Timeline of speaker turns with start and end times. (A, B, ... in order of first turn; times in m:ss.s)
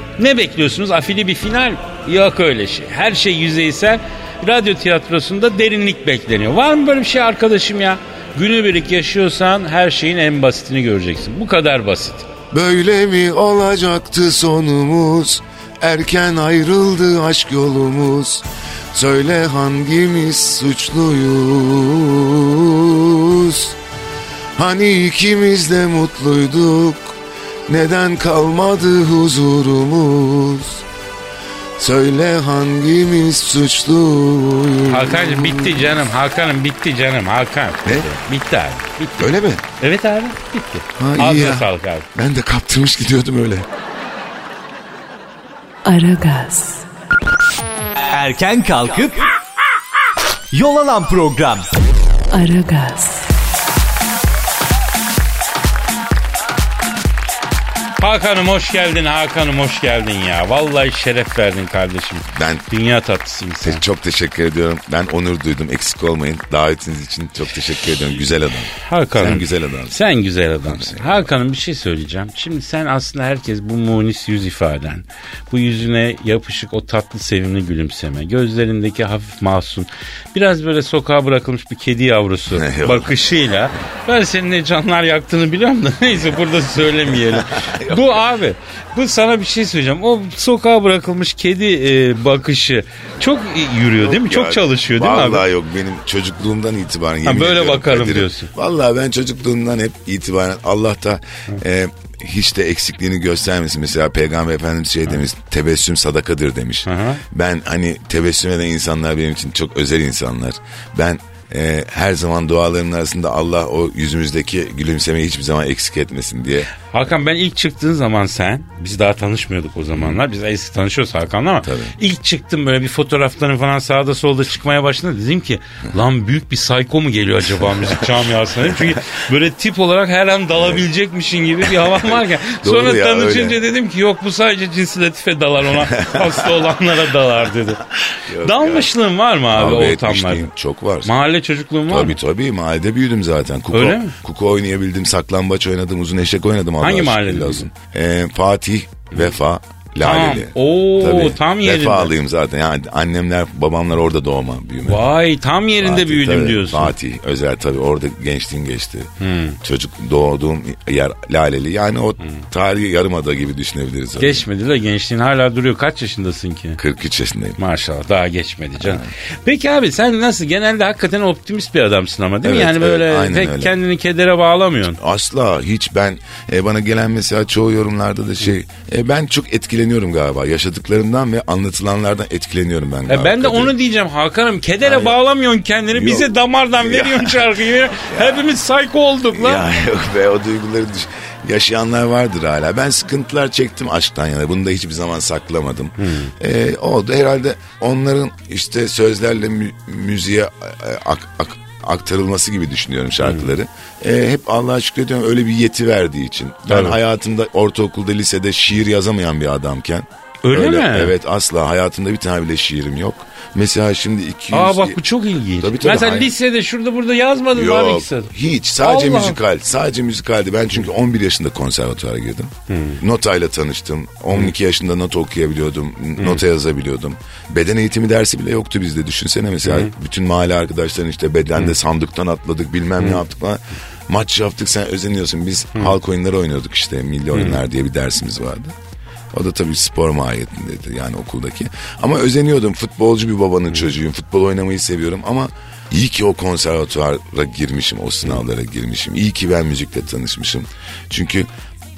0:00.2-0:12.3 A
0:12.5-0:23.8 B
0:24.6-0:27.2 B
0:27.7-0:30.8 B
0:31.8-0:36.0 B
0:34.9-0:42.0 A
0:37.8-0:38.1 B
0:39.2-0:39.6 B
0:41.0-0:43.7 B
0:45.8-0:46.8 C
0:48.1-0:49.2 D
0:50.5-0:51.7 D
0:52.3-0:53.3 C
0:58.0-1:03.8 A
1:02.3-1:02.6 B
1:03.6-1:10.0 B
1:08.8-1:35.4 A
1:10.6-1:11.2 B
1:22.5-1:23.1 B
1:27.1-1:28.2 B
1:34.0-1:56.7 B
1:37.2-1:38.5 A
1:46.8-1:47.2 A
1:56.8-2:17.8 A
2:01.6-2:02.0 B
2:07.7-2:09.0 B
2:10.5-2:10.8 B
2:11.6-2:13.6 B
2:15.7-2:16.5 B
2:18.3-2:18.9 B
2:18.4-2:20.5 A
2:19.5-2:21.1 B
2:21.0-2:22.2 A
2:21.9-2:35.1 B
2:23.7-2:24.1 A
2:26.8-2:27.7 A
2:30.0-2:32.1 A
2:34.8-2:36.9 A
2:35.8-2:44.4 B
2:39.2-2:39.6 A
2:44.2-2:46.8 A
2:46.8-2:47.6 B
2:47.6-2:55.0 A
2:48.8-2:49.1 B
2:52.4-2:53.8 B
2:54.9-3:03.7 B
3:03.1-3:09.6 A
3:04.8-3:05.2 B
3:05.9-3:08.4 B
3:09.3-3:35.0 B
3:16.0-3:16.3 A
3:23.2-3:23.5 A
3:26.7-3:27.0 A
3:30.4-3:31.1 A
3:34.5-3:38.3 A
3:35.6-3:36.3 B
3:37.5-3:58.7 B
3:38.8-3:39.4 A
3:42.7-3:43.0 A
3:46.2-3:46.4 A
3:49.6-3:49.9 A
3:57.3-3:57.6 A
3:59.3-4:11.5 B